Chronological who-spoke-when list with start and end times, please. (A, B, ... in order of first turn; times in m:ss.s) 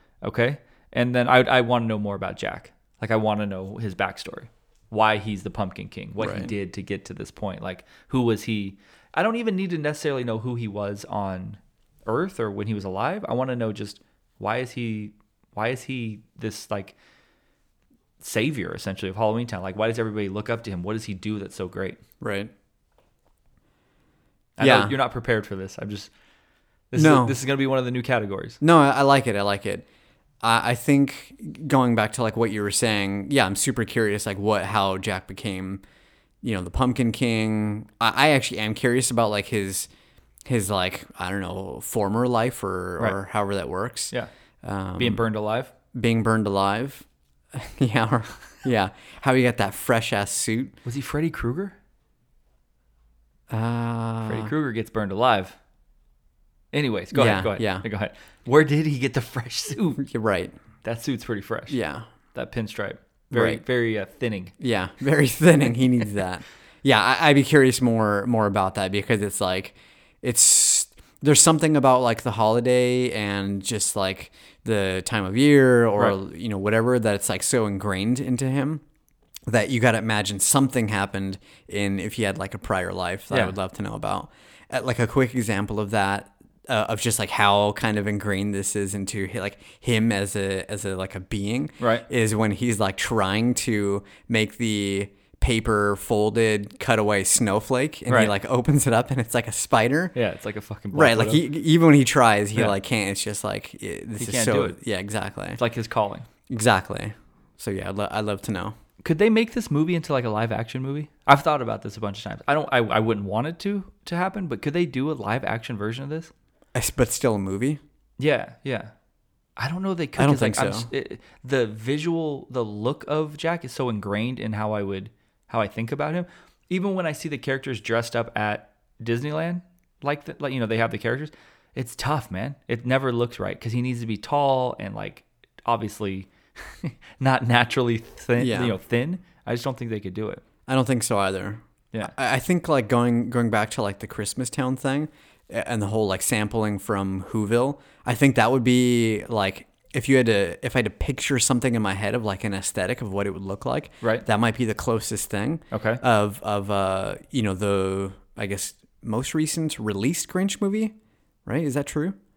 0:00.2-0:16.9 A
0:06.2-0:06.5 B
0:18.2-0:22.0 A
0:22.2-0:22.5 B
0:24.6-0:26.1 A
0:24.6-0:24.9 B
0:26.9-0:28.6 A
0:26.9-0:27.4 B
0:28.6-0:29.8 B
0:30.4-0:35.8 B
0:36.4-0:39.9 B
0:40.4-0:45.2 B
0:45.0-0:45.7 A
0:45.9-0:50.8 B
0:50.8-0:51.7 A
0:53.5-0:54.5 B
0:54.2-0:55.6 A
0:56.7-1:00.0 A
0:57.1-0:57.8 B
1:00.0-1:00.5 B
1:00.8-1:01.8 A
1:01.7-1:02.0 B
1:02.3-1:04.5 A
1:03.3-1:03.6 B
1:04.6-1:18.8 B
1:19.5-1:40.1 B
1:31.8-1:32.0 A
1:38.1-1:38.3 A
1:40.1-1:41.4 A
1:40.9-1:45.6 B
1:44.2-1:44.8 A
1:45.6-1:46.3 A
1:46.5-1:48.7 B
1:49.0-1:56.3 A
1:56.7-1:57.8 B
1:58.2-1:58.9 A
1:59.6-2:20.4 A
2:00.2-2:00.9 B
2:18.4-2:18.8 B
2:20.7-2:40.9 B
2:35.7-2:36.0 A
2:41.4-2:42.2 B